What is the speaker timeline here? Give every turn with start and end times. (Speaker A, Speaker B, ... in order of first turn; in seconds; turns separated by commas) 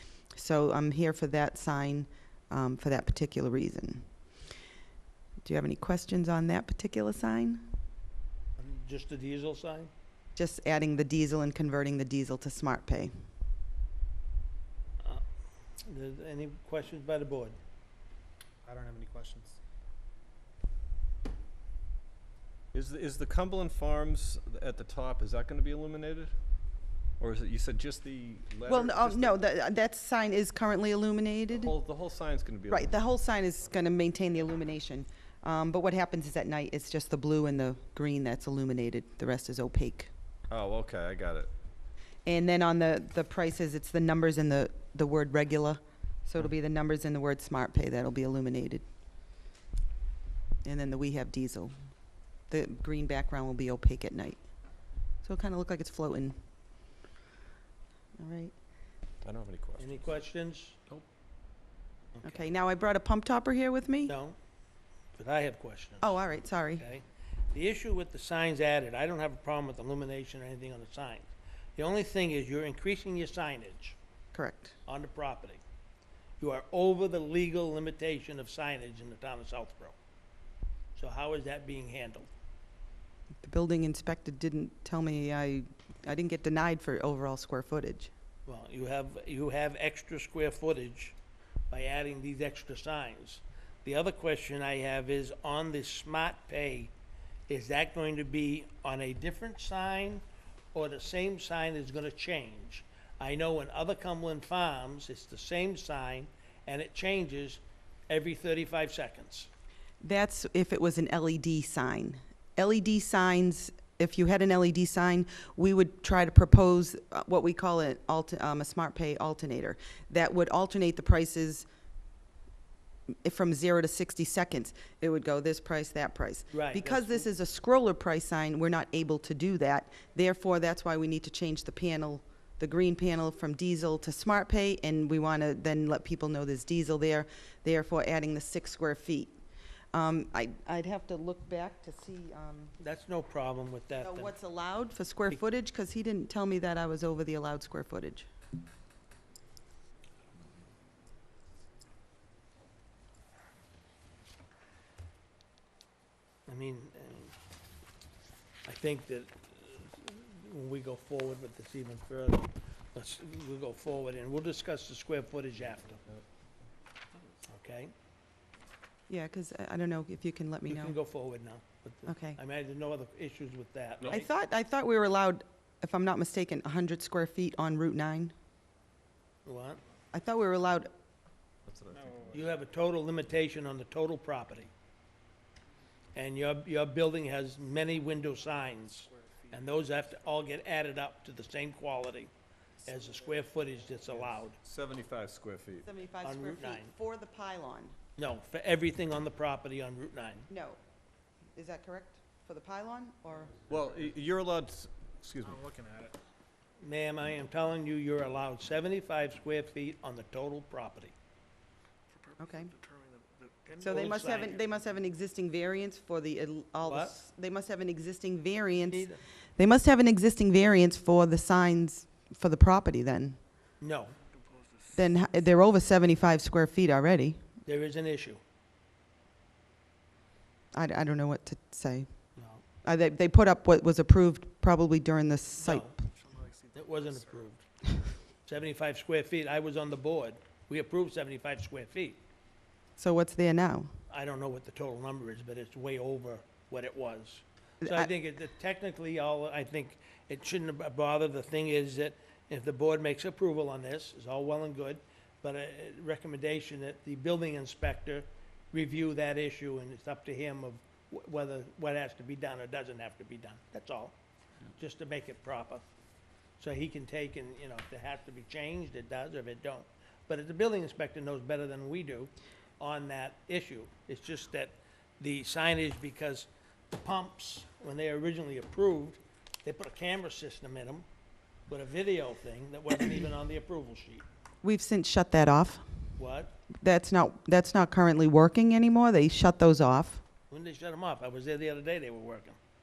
Speaker A: 0.3-4.0, Speaker A: 5.4-7.6, Speaker B: 8.6-9.9, Speaker A: 10.3-13.1, Speaker B: 15.8-17.6, Speaker C: 18.6-19.6, Speaker D: 22.7-26.3, Speaker D: 27.2-29.4, Speaker A: 28.7-31.7, Speaker D: 31.5-32.9, Speaker A: 32.7-40.1, Speaker D: 40.5-41.5, Speaker A: 42.2-48.8, Speaker A: 50.6-51.8, Speaker A: 52.5-54.4, Speaker A: 55.2-56.4, Speaker A: 58.2-58.5, Speaker D: 59.2-60.0, Speaker B: 59.8-60.8, Speaker B: 62.2-62.4, Speaker A: 62.2-64.1, Speaker B: 64.0-64.3, Speaker B: 65.2-66.2, Speaker A: 66.0-66.8, Speaker B: 66.8-74.0, Speaker A: 74.3-74.8, Speaker B: 74.9-75.6, Speaker B: 76.4-79.9, Speaker B: 81.0-82.3, Speaker A: 83.4-88.1, Speaker B: 88.5-91.2, Speaker B: 91.7-96.9, Speaker B: 97.5-100.2, Speaker B: 100.7-109.5, Speaker A: 110.0-121.6, Speaker A: 123.2-139.3, Speaker B: 126.5-127.3, Speaker A: 139.9-142.7, Speaker B: 142.8-144.3, Speaker A: 144.0-148.3, Speaker B: 156.5-157.3, Speaker B: 158.6-166.0, Speaker B: 167.5-167.9, Speaker A: 169.1-170.9, Speaker B: 170.7-174.2, Speaker A: 172.1-172.4, Speaker A: 174.0-178.3, Speaker B: 179.4-179.8, Speaker A: 180.1-180.9, Speaker D: 181.7-182.4, Speaker C: 181.9-182.4, Speaker B: 182.3-184.7, Speaker B: 186.1-192.3, Speaker C: 189.1-189.5, Speaker B: 192.8-194.6, Speaker D: 194.6-195.9, Speaker A: 195.8-197.9, Speaker B: 196.2-196.9, Speaker B: 198.2-200.5, Speaker A: 200.5-200.8, Speaker A: 201.5-203.6, Speaker D: 203.7-205.7, Speaker C: 205.4-206.2, Speaker B: 206.8-211.1, Speaker C: 212.1-213.9, Speaker A: 212.4-212.7, Speaker B: 213.8-214.6, Speaker A: 213.8-223.4, Speaker B: 216.8-217.1, Speaker B: 218.9-219.2, Speaker B: 223.8-224.2, Speaker A: 224.9-227.4, Speaker B: 227.7-228.4, Speaker A: 230.7-232.1, Speaker B: 232.3-232.6, Speaker A: 232.8-235.9, Speaker B: 235.6-235.9, Speaker C: 236.2-236.7, Speaker B: 236.7-237.6, Speaker B: 238.4-242.2, Speaker A: 243.0-243.9, Speaker B: 244.1-264.1, Speaker A: 247.8-248.1, Speaker B: 264.8-265.8, Speaker B: 266.6-281.0, Speaker B: 281.7-284.2, Speaker A: 284.6-285.8, Speaker B: 286.2-286.5, Speaker A: 286.8-290.2, Speaker B: 290.5-292.6